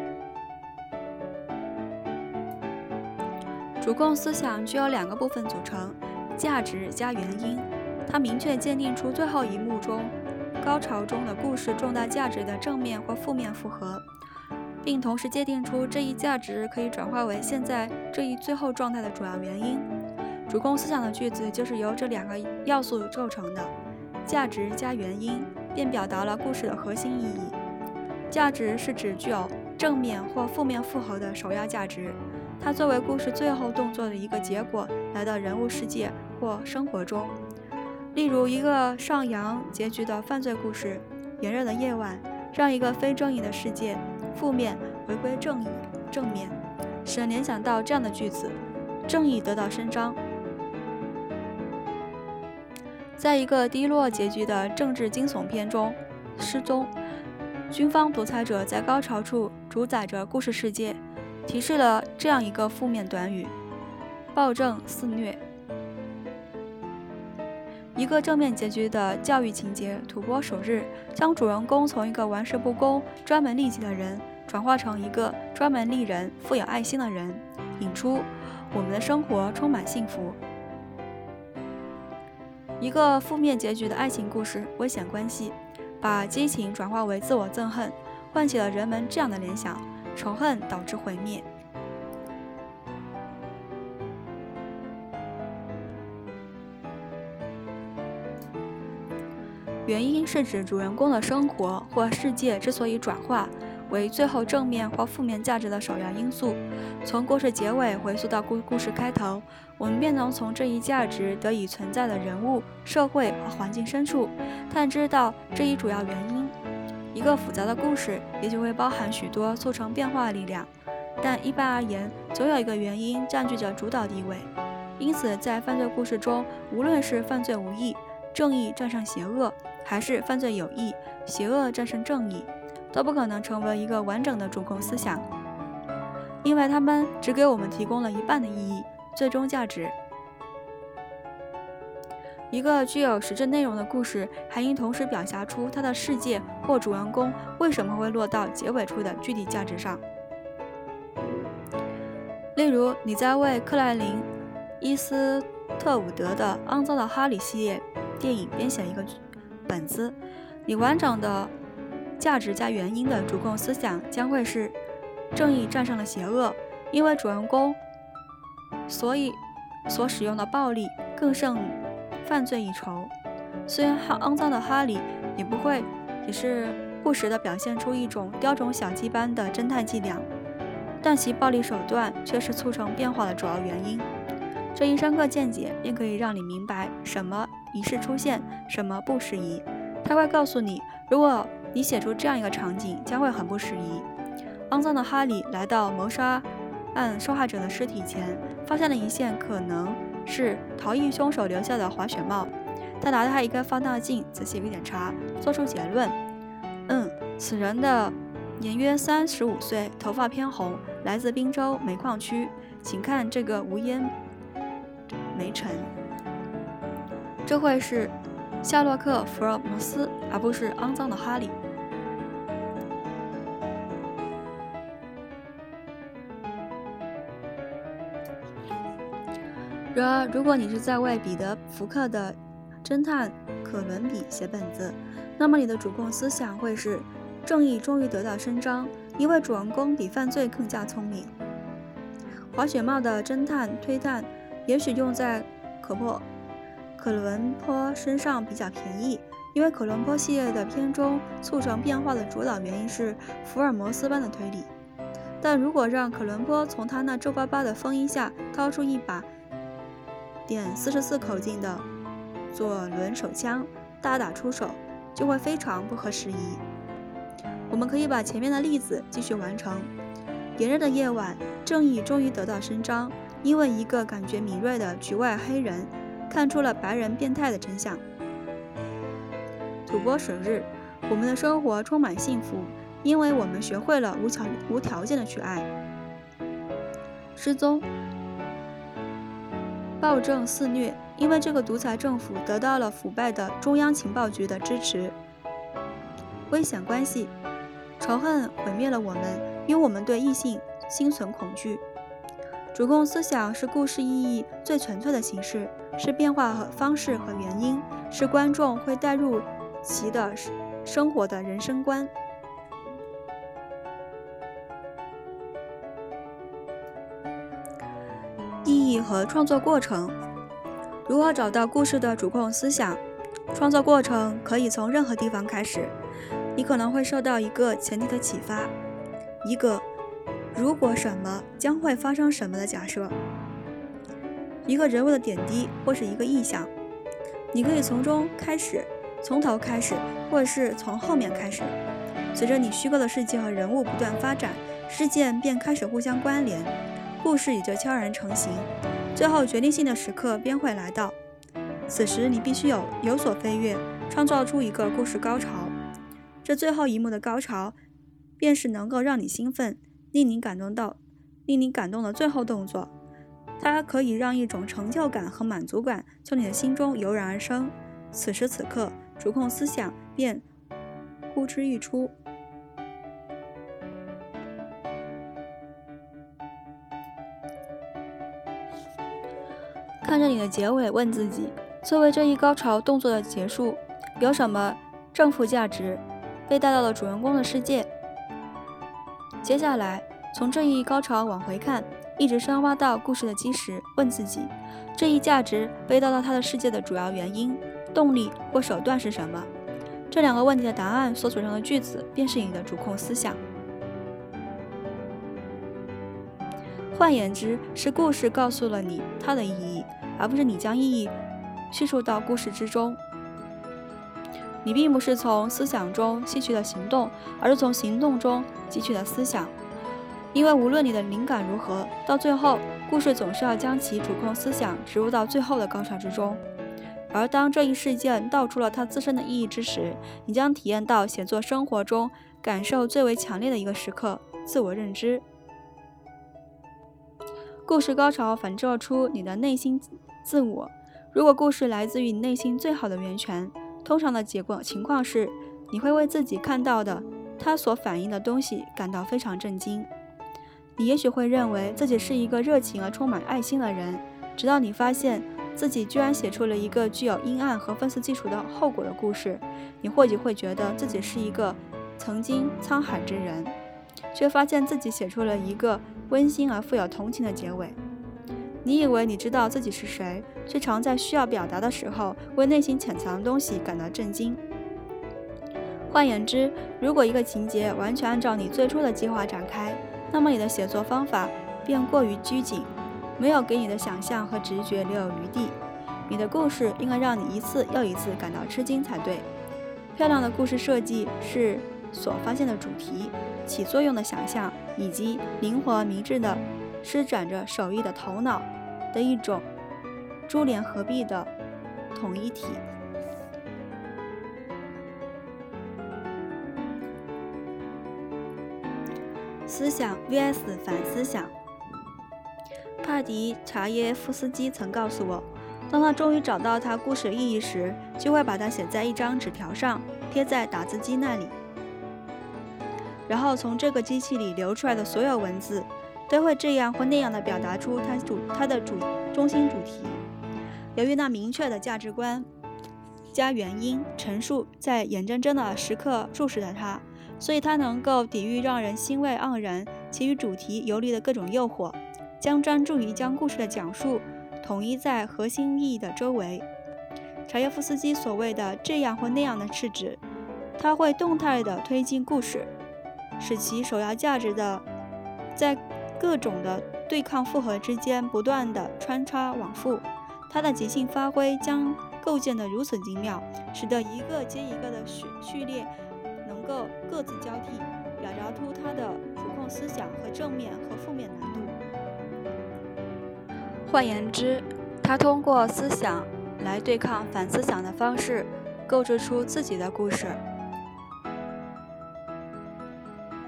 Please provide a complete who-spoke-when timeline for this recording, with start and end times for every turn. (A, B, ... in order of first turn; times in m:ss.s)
0:03.8-0:14.0 A
0:14.8-0:19.9 A
0:20.5-0:23.7 A
0:24.2-0:27.6 A
0:28.3-0:37.4 A
0:38.1-0:50.2 A
0:53.2-0:56.9 A
0:57.7-1:03.5 A
1:04.3-1:05.4 A
1:08.0-1:20.4 A
1:22.8-1:31.5 A
1:39.9-1:56.6 A
1:57.1-2:15.3 A
2:16.4-2:20.0 A
2:22.5-2:30.0 A
2:32.6-2:34.3 A
2:34.8-2:41.5 A
2:42.2-2:44.8 A
2:45.3-2:47.8 A
2:48.9-2:53.1 A
2:53.7-3:00.3 A
3:01.0-3:04.1 A
3:04.7-3:14.1 A
3:14.7-3:26.2 A
3:26.9-3:34.1 A
3:35.3-3:35.9 A
3:37.4-3:41.6 A
3:49.9-4:01.3 A
4:02.5-4:06.3 A
4:07.0-4:14.7 A
4:15.4-4:19.3 A
4:20.5-4:21.8 A
4:22.5-4:26.6 A
4:27.7-4:29.9 A
4:30.6-4:38.0 A
4:39.9-4:45.7 A
4:47.4-4:47.9 A
4:50.0-4:55.2 A
4:56.5-4:57.4 A
4:58.0-5:01.8 A
5:02.7-5:12.1 A
5:18.6-5:20.2 A
5:21.1-5:23.0 A
5:23.5-5:26.0 A
5:26.6-5:28.7 A
5:29.4-5:29.9 A
5:30.5-5:33.2 A
5:34.7-5:36.7 A
5:37.5-5:41.8 A
5:42.3-5:51.2 A
5:51.9-5:55.8 A
5:56.4-5:57.8 A
5:58.4-6:02.9 A
6:03.6-6:10.5 A
6:11.3-6:12.2 A
6:20.0-6:27.9 A
6:29.4-6:39.5 A
6:40.1-6:43.4 A
6:46.9-6:51.1 A
6:51.7-6:53.0 A
6:54.6-6:59.5 A
7:00.3-7:06.4 A
7:07.1-7:15.2 A
7:17.7-7:29.9 A
7:30.8-7:43.6 A
7:44.1-7:47.8 A
7:48.6-7:54.4 A
7:55.9-8:05.6 A
8:06.1-8:09.3 A
8:10.0-8:19.5 A
8:20.3-8:21.3 A
8:21.9-8:22.6 A
8:29.5-8:31.3 A
8:32.8-8:41.4 A
8:43.1-8:50.0 A
8:50.8-8:52.3 A
8:53.1-9:06.5 A
9:07.3-9:10.0 A
9:10.6-9:12.5 A
9:13.2-9:14.6 A
9:15.4-9:25.7 A
9:26.2-9:31.6 A
9:33.7-9:40.2 A